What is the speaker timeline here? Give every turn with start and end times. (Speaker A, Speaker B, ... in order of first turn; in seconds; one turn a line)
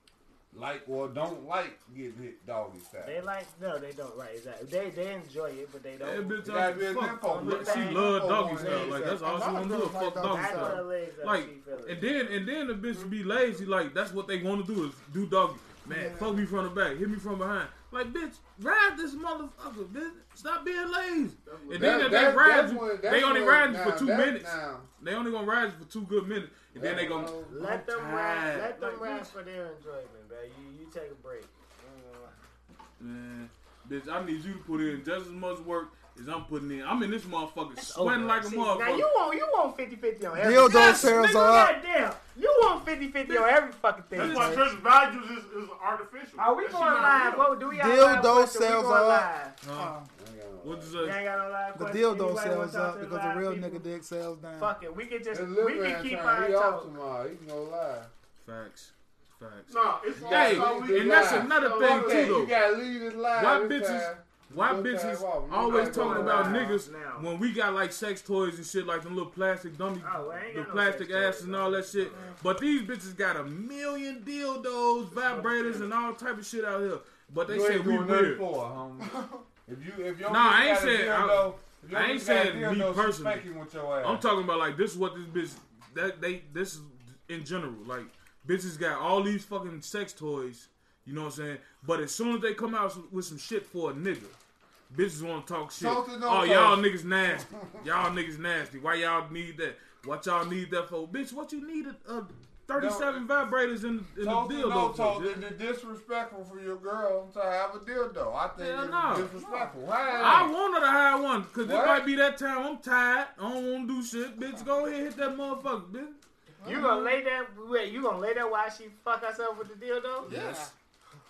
Speaker A: 0.5-3.2
Speaker B: 3.0-6.4
Speaker C: 6.0-29.3
Speaker A: 6.4-9.2
Speaker B: 7.2-9.2
Speaker D: 9.1-10.8
Speaker B: 10.2-12.4
Speaker D: 15.8-16.5
Speaker B: 21.5-22.1
Speaker A: 21.7-24.9
Speaker A: 26.7-27.5
Speaker B: 26.8-32.4
Speaker C: 33.0-39.1
Speaker B: 37.8-44.6
Speaker D: 40.3-41.8
Speaker C: 40.7-41.1
Speaker E: 44.1-47.5
Speaker C: 44.2-44.6
Speaker D: 44.3-44.6
Speaker B: 46.4-49.6
Speaker D: 47.6-50.1
Speaker C: 49.6-49.9
Speaker A: 50.1-51.1
Speaker C: 50.6-51.3
Speaker B: 51.0-53.9
Speaker D: 51.7-54.8
Speaker B: 54.6-56.9
Speaker A: 55.3-58.1
Speaker C: 58.4-62.6
Speaker E: 59.7-62.4
Speaker A: 60.1-66.8
Speaker C: 63.3-78.4
Speaker B: 65.7-67.3
Speaker B: 70.0-72.2
Speaker B: 75.2-75.9
Speaker A: 77.5-84.2
Speaker D: 79.0-79.4
Speaker C: 80.3-83.5
Speaker C: 84.0-94.4
Speaker C: 94.9-105.4
Speaker A: 95.8-97.9
Speaker A: 102.7-103.3
Speaker A: 104.2-110.5
Speaker C: 108.6-109.3
Speaker D: 109.3-109.8
Speaker C: 110.2-116.2
Speaker A: 111.6-112.1
Speaker D: 116.6-117.2
Speaker B: 116.6-120.3
Speaker D: 120.2-120.7
Speaker C: 120.3-120.7